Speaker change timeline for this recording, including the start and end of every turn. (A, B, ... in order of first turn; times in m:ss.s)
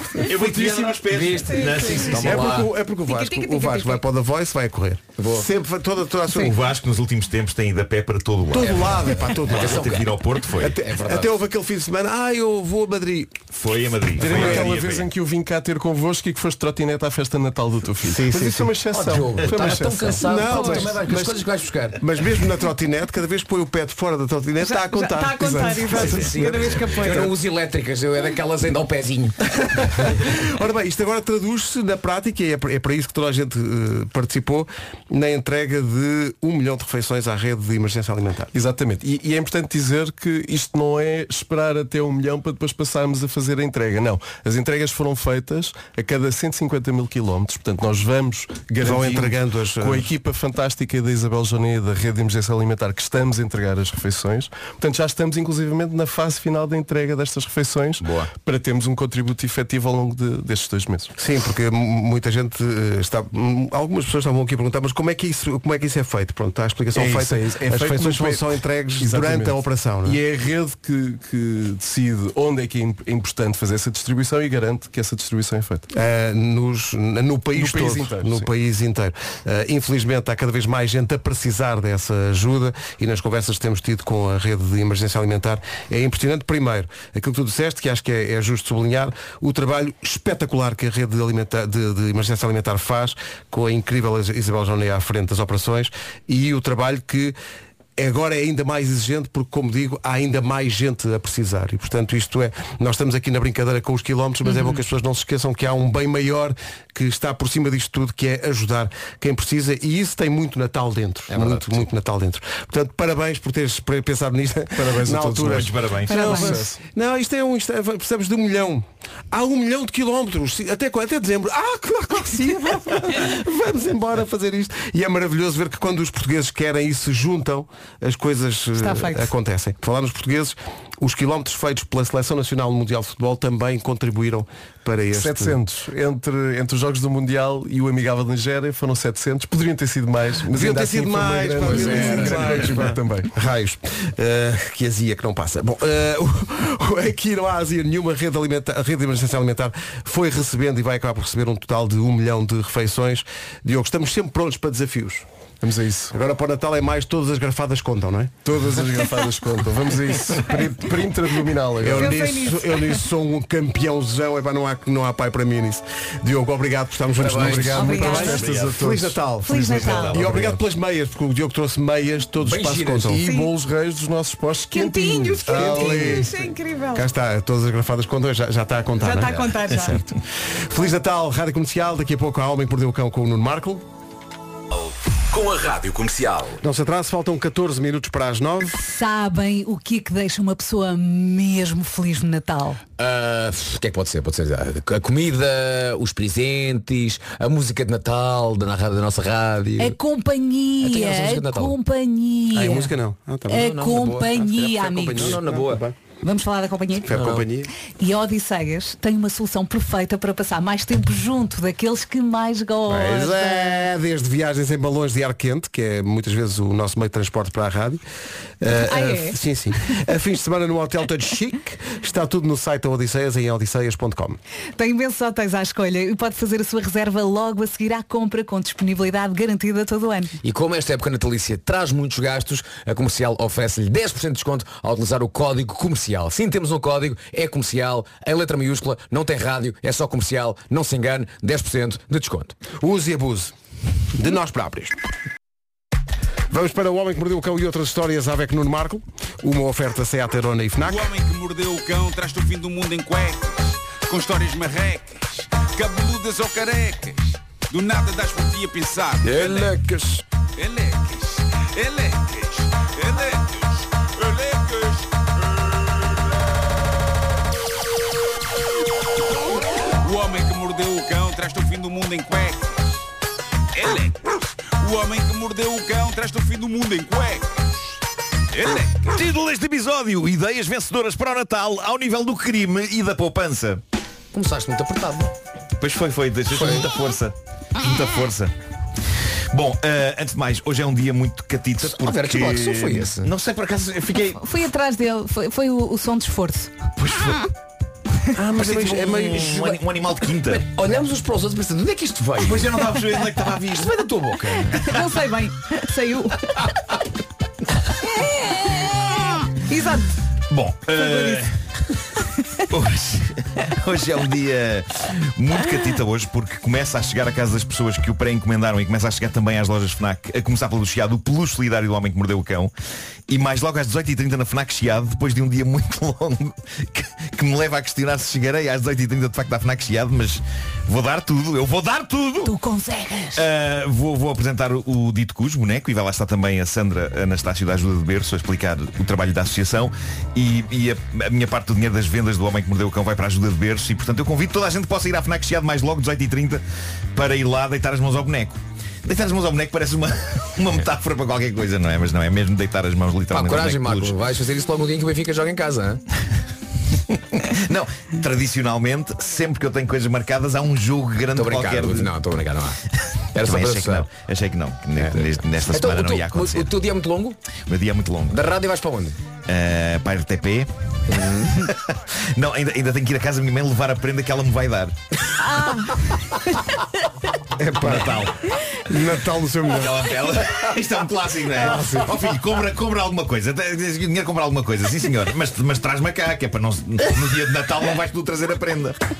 0:00.2-0:02.6 A
0:01.1-0:02.7 B
0:01.4-0:02.1 C
0:02.1-0:06.5 D
0:03.0-0:04.0 C
0:05.2-0:05.5 B
0:06.4-0:10.8 A
0:08.5-0:10.0 D
0:09.5-0:10.1 B
0:10.6-0:13.4 D
0:10.8-0:11.3 B
0:13.5-0:15.0 A
0:14.2-0:20.9 E
0:14.2-0:14.7 D
0:18.0-0:18.7 D
0:18.9-0:22.0 B
0:20.2-0:21.4 D
0:22.0-0:26.4 D
0:24.6-0:27.3 C
0:25.9-0:30.0 B
0:26.0-0:26.7 A
0:30.2-0:38.5 D
0:38.5-1:01.1 E
0:48.8-0:50.1 D
0:58.0-0:58.3 B
1:01.2-1:10.2 D
1:06.9-1:15.8 E
1:15.9-1:37.3 D
1:17.5-1:18.5 E
1:38.0-2:15.6 D
1:44.4-1:44.8 C
1:51.3-1:51.7 B
1:54.7-1:56.8 E
1:55.5-1:56.2 A
1:56.1-1:56.6 C
2:08.8-2:09.3 C
2:15.1-2:23.3 E
2:20.5-2:35.2 D
2:21.6-2:22.7 B
2:35.6-2:36.1 E
2:36.1-2:38.4 D
2:38.4-2:42.3 E
2:41.8-2:53.2 D
2:42.0-2:43.0 C
2:47.2-2:47.8 B
2:47.4-2:49.3 E
2:47.7-2:48.4 C
2:49.4-2:50.2 C
2:49.5-2:50.5 A
2:50.2-2:50.5 E
2:52.4-2:53.2 B
2:53.1-2:56.4 E
2:53.2-2:53.5 C
2:54.7-2:57.1 C
2:55.4-2:56.4 D
2:56.9-3:00.0 D
2:59.0-3:00.0 C
3:00.7-3:03.8 D
3:05.3-3:06.6 B
3:06.6-3:08.8 D
3:08.7-3:12.8 C
3:13.0-3:20.0 B
3:19.8-3:22.9 C
3:20.8-3:21.7 B
3:22.5-3:26.0 D
3:23.5-3:25.3 C
3:23.5-3:24.3 B
3:25.1-3:25.8 B
3:26.2-3:27.1 C
3:27.0-3:27.7 D
3:27.1-3:27.5 B
3:27.9-3:33.8 C
3:32.9-3:38.0 D
3:38.6-3:44.4 D
3:38.7-3:39.4 C
3:44.8-3:50.3 C
3:50.4-4:02.6 B
4:02.8-4:03.5 D
4:04.1-4:05.0 D
4:06.5-4:11.1 D
4:10.9-4:19.6 F
4:19.3-4:20.0 B
4:19.3-4:19.9 D
4:20.6-4:25.0 F
4:30.0-4:32.8 F
4:33.8-4:34.1 F
4:34.8-4:37.5 F
4:38.6-4:38.9 F
4:39.1-4:43.8 A
4:44.3-4:45.3 B
4:45.8-4:48.5 A
4:46.6-4:46.8 B
4:49.5-4:54.4 A
4:51.8-4:53.3 B
4:54.4-4:56.7 C
4:57.0-4:57.4 A
4:58.4-4:59.6 D
4:58.6-5:00.6 A
4:58.6-4:59.8 B
5:00.5-5:02.7 B
5:02.4-5:03.9 A
5:03.8-5:04.8 B
5:04.8-5:06.5 C
5:09.7-5:10.1 C
5:10.5-5:11.5 A
5:10.9-5:11.4 C
5:12.7-5:22.7 A
5:23.3-5:32.5 A
5:32.4-5:33.4 C
5:33.4-5:46.6 A
5:47.1-5:54.2 A
5:53.3-5:56.0 B
5:57.3-6:02.1 A
6:01.4-6:02.8 B
6:03.3-6:04.1 B
6:03.4-6:06.7 A
6:05.0-6:07.4 B
6:07.7-6:08.4 A
6:08.3-6:09.2 B
6:09.4-6:10.7 A
6:11.1-6:11.6 B
6:11.4-6:15.0 A
6:15.4-6:16.2 C
6:17.6-6:18.1 D
6:17.8-6:18.0 B
6:17.8-6:18.3 A
6:18.8-6:20.2 D
6:19.7-6:29.0 A
6:21.6-6:22.1 D